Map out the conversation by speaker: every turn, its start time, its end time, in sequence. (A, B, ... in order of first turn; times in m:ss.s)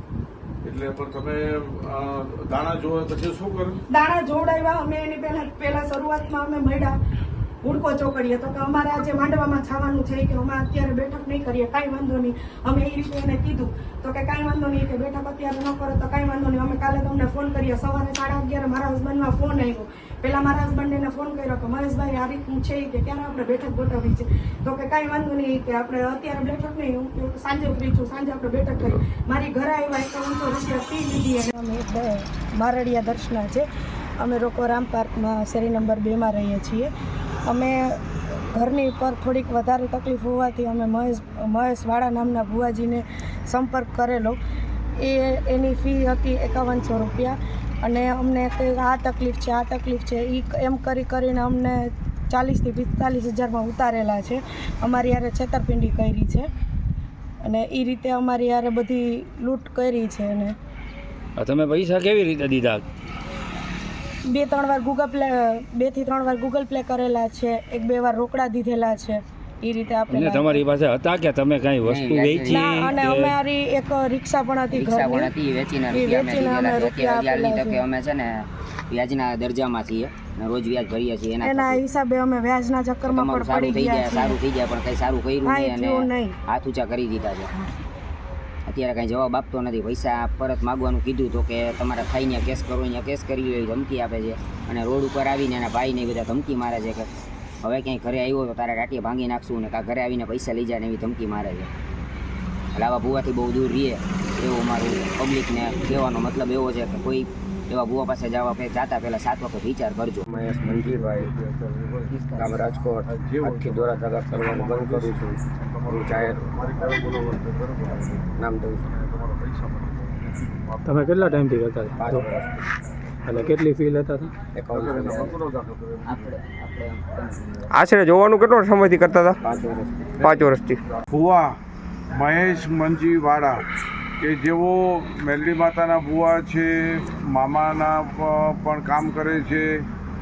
0:00.6-0:03.8 A
0:03.9-0:07.0 B
0:07.6-0:33.7 B
0:34.2-0:36.9 B
0:37.4-0:44.4 B
0:45.0-0:56.5 B
0:57.4-1:00.6 B
1:01.4-1:02.8 C
1:04.3-1:10.6 B
1:10.1-1:13.3 C
1:11.8-1:12.9 D
1:12.5-1:15.3 B
1:14.7-1:21.8 D
1:15.9-1:17.8 B
1:21.4-1:24.4 B
1:23.1-1:27.5 D
1:25.4-1:26.4 B
1:28.7-1:37.1 D
1:37.6-1:41.7 D
1:42.8-1:50.2 D
1:50.3-1:51.3 E
1:50.6-1:52.2 A
1:52.3-1:56.4 E
1:53.2-1:58.3 A
1:58.4-1:58.9 E
1:59.0-2:00.1 A
2:00.8-2:02.3 F
2:02.0-2:02.7 E
2:03.2-2:04.3 F
2:04.5-2:05.4 E
2:04.7-2:06.0 A
2:06.0-2:07.7 D
2:07.7-2:09.4 G
2:09.4-2:10.2 E
2:10.2-2:10.8 G
2:10.2-2:10.5 A
2:11.1-2:11.6 A
2:12.1-2:13.6 A
2:14.2-2:19.8 A